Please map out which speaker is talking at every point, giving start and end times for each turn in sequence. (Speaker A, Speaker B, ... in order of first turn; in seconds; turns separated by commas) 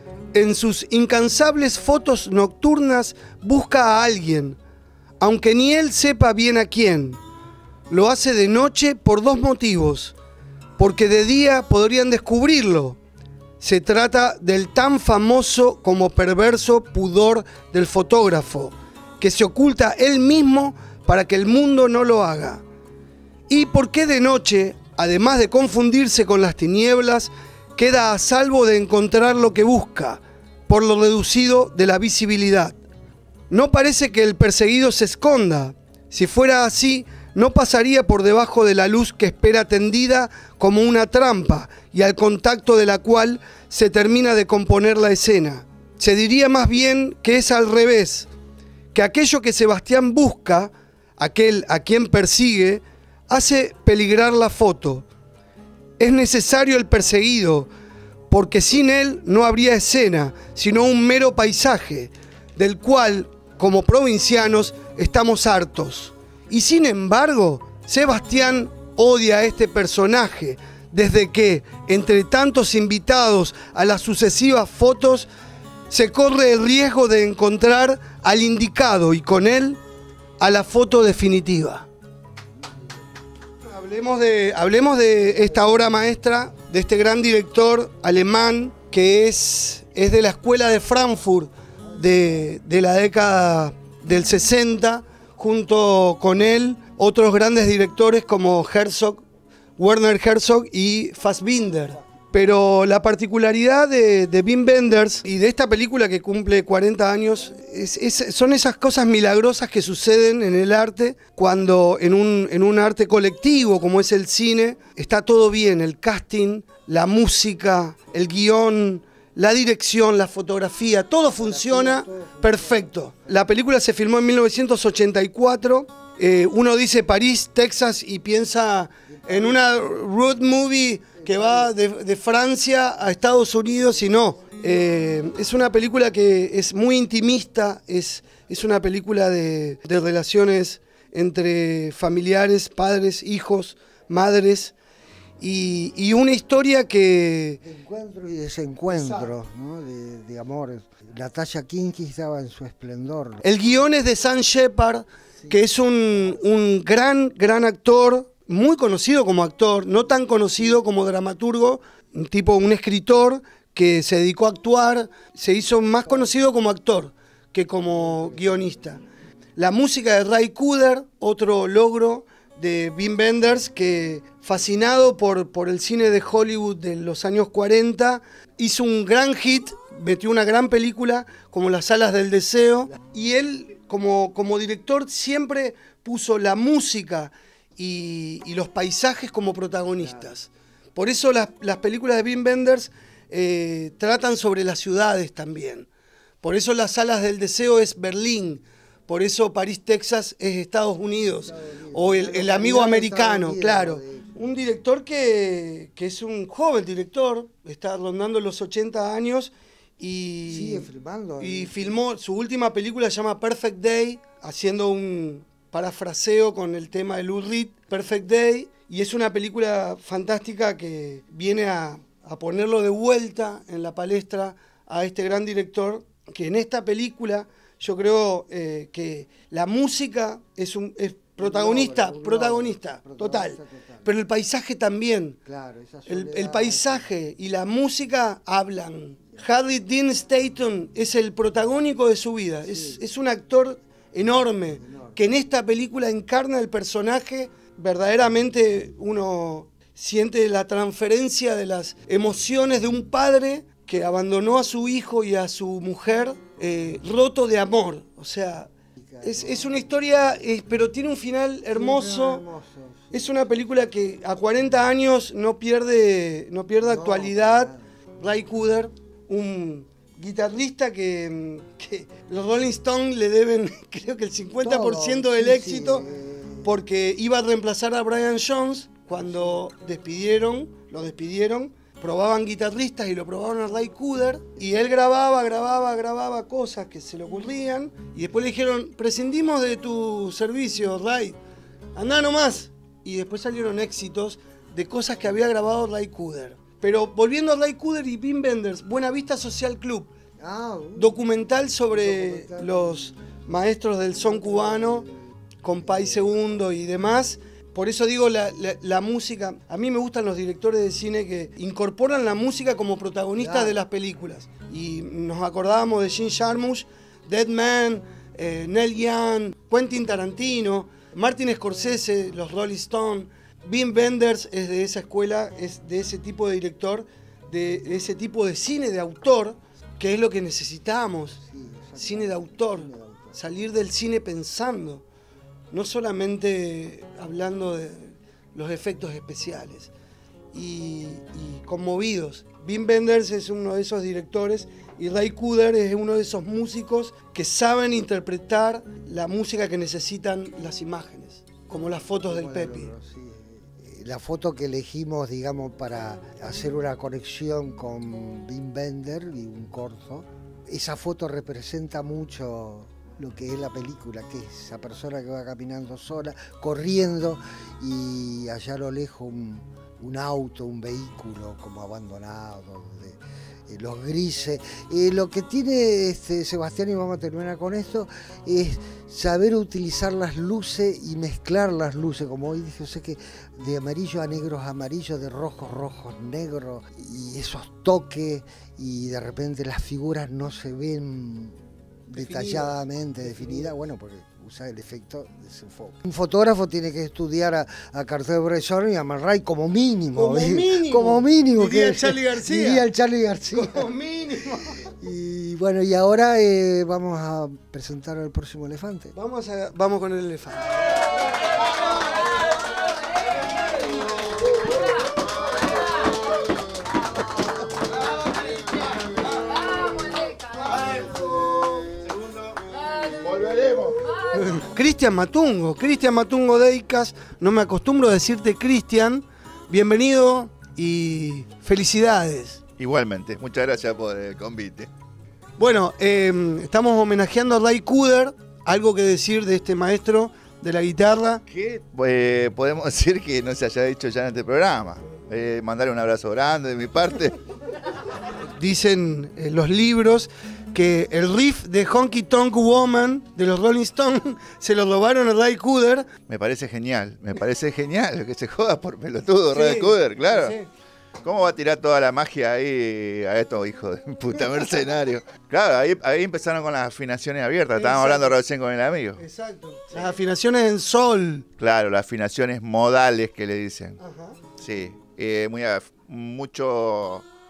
Speaker A: 0.3-4.6, Speaker A: 5.2-7.2, Speaker A: 7.9-10.1, Speaker A: 10.8-13.0, Speaker A: 13.6-22.6, Speaker A: 23.5-32.8, Speaker A: 33.5-48.3, Speaker A: 48.9-55.0, Speaker A: 56.0-57.7, Speaker A: 58.3-75.3, Speaker A: 75.9-79.8, Speaker A: 80.4-81.9, Speaker A: 83.6-99.2, Speaker A: 99.8-144.7, Speaker B: 121.3-122.9, Speaker B: 129.2-129.5, Speaker B: 131.2-131.7, Speaker A: 145.4-147.6, Speaker B: 147.6-153.4, Speaker A: 148.9-149.3, Speaker A: 153.4-169.0, Speaker A: 169.6-195.9, Speaker A: 196.4-210.9, Speaker B: 201.4-204.3, Speaker B: 210.5-212.0, Speaker A: 211.4-235.4, Speaker B: 231.4-234.1, Speaker B: 235.4-237.1, Speaker A: 236.1-262.4, Speaker B: 242.7-243.0, Speaker B: 244.8-245.2, Speaker B: 259.0-259.9, Speaker B: 261.7-263.4, Speaker A: 263.1-276.1, Speaker B: 266.8-267.8, Speaker B: 274.6-276.8, Speaker A: 276.6-291.4, Speaker A: 291.9-300.1, Speaker B: 300.4-301.2, Speaker A: 300.9-305.1, Speaker B: 301.9-303.1, Speaker B: 304.1-305.2, Speaker A: 305.6-331.4, Speaker B: 305.8-306.4, Speaker B: 313.4-313.8, Speaker B: 331.4-333.4, Speaker A: 332.0-335.0, Speaker A: 335.7-339.9, Speaker A: 340.5-352.9, Speaker B: 352.3-403.9, Speaker A: 392.1-393.7, Speaker A: 400.1-402.9, Speaker A: 403.5-404.9, Speaker B: 405.0-409.1, Speaker A: 409.1-410.7, Speaker C: 418.4-418.8, Speaker C: 419.5-424.3, Speaker A: 424.3-432.6, Speaker C: 432.8-434.9, Speaker A: 435.6-441.4, Speaker C: 441.5-447.4, Speaker A: 448.5-456.1, Speaker C: 456.3-460.5, Speaker A: 459.5-460.7, Speaker C: 461.2-469.2, Speaker A: 467.8-468.4, Speaker A: 469.2-471.4, Speaker C: 471.6-474.0, Speaker A: 474.0-474.4, Speaker C: 474.6-477.2